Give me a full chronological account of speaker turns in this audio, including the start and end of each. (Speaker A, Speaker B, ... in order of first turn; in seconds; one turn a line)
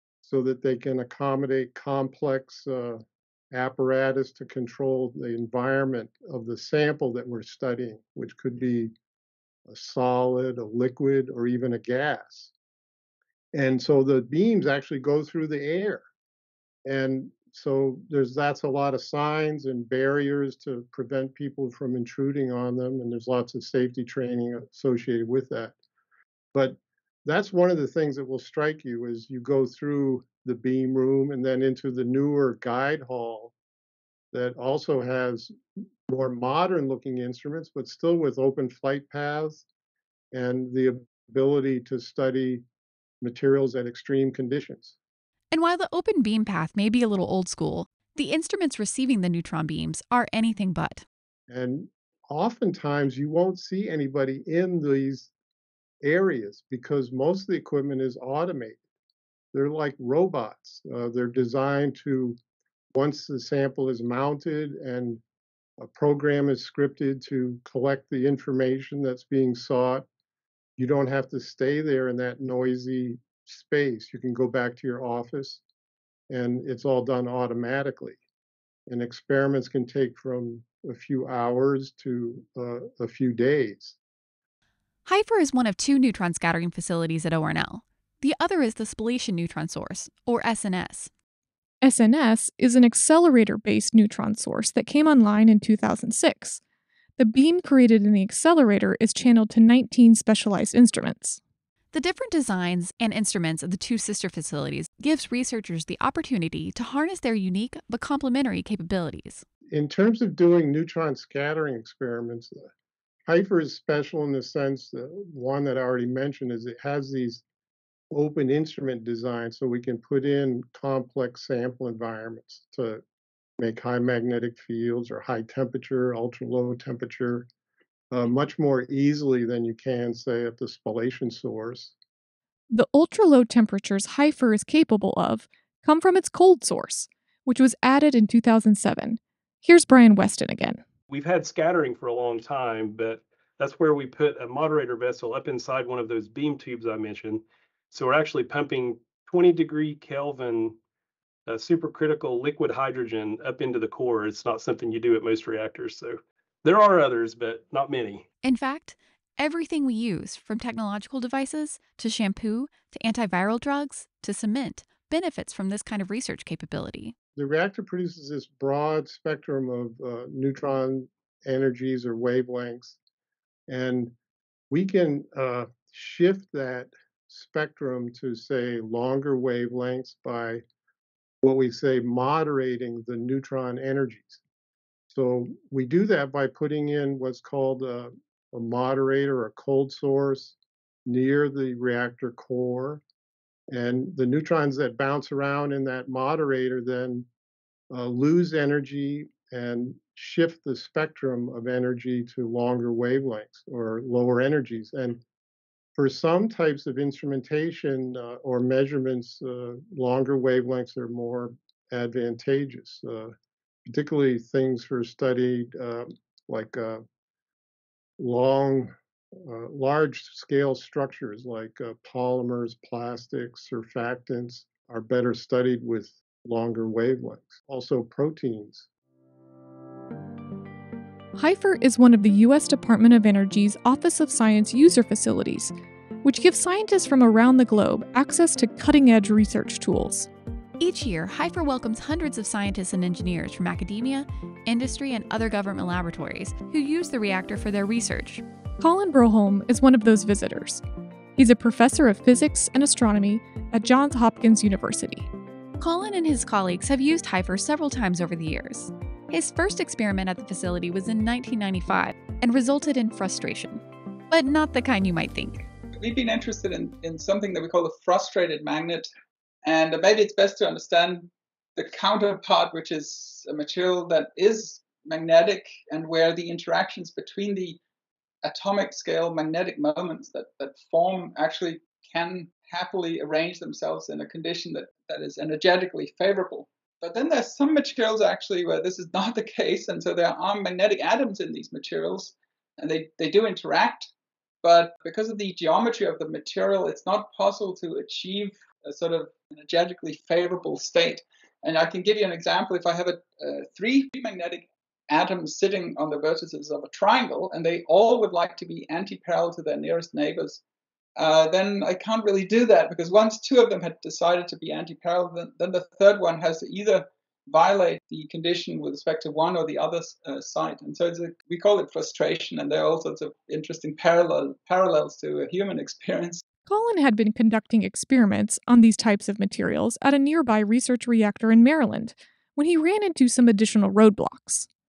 Speaker A: 0.2-8.9
Speaker A: 9.7-12.5
Speaker A: 13.5-16.0
Speaker A: 16.8-25.7
Speaker A: 26.5-33.5
Speaker A: 34.3-35.5
Speaker A: 36.1-39.6
Speaker A: 40.3-42.6
Speaker A: 43.2-45.0
Speaker B: 45.5-51.0
Speaker A: 51.5-55.3
Speaker A: 56.0-58.8
Speaker A: 59.5-62.4
Speaker A: 62.9-65.2
Speaker A: 65.8-70.0
Speaker A: 70.8-75.6
Speaker A: 76.3-78.2
Speaker A: 78.9-84.0
Speaker B: 85.0-91.1
Speaker C: 91.8-96.6
Speaker C: 97.2-101.4
Speaker B: 101.9-109.4
Speaker A: 109.7-112.6
Speaker A: 113.2-117.4
Speaker A: 118.1-123.0
Speaker A: 123.6-127.5
Speaker A: 128.1-131.9
Speaker C: 132.7-140.8
Speaker D: 141.1-150.8
Speaker D: 151.5-158.2
Speaker B: 158.4-167.1
Speaker A: 167.4-173.0
Speaker A: 173.7-174.1
Speaker A: 174.7-180.6
Speaker A: 181.4-184.4
Speaker A: 185.1-193.0
Speaker A: 193.7-197.3
Speaker A: 197.9-205.2
Speaker A: 205.9-213.3
Speaker A: 213.8-217.0
Speaker A: 218.2-228.9
Speaker C: 231.3-240.3
Speaker B: 240.8-248.4
Speaker C: 248.8-250.8
Speaker C: 251.3-255.3
Speaker B: 255.8-265.7
Speaker E: 265.9-269.1
Speaker E: 269.6-277.8
Speaker E: 278.4-294.1
Speaker E: 294.6-310.6
Speaker E: 311.1-326.4
Speaker C: 326.6-334.7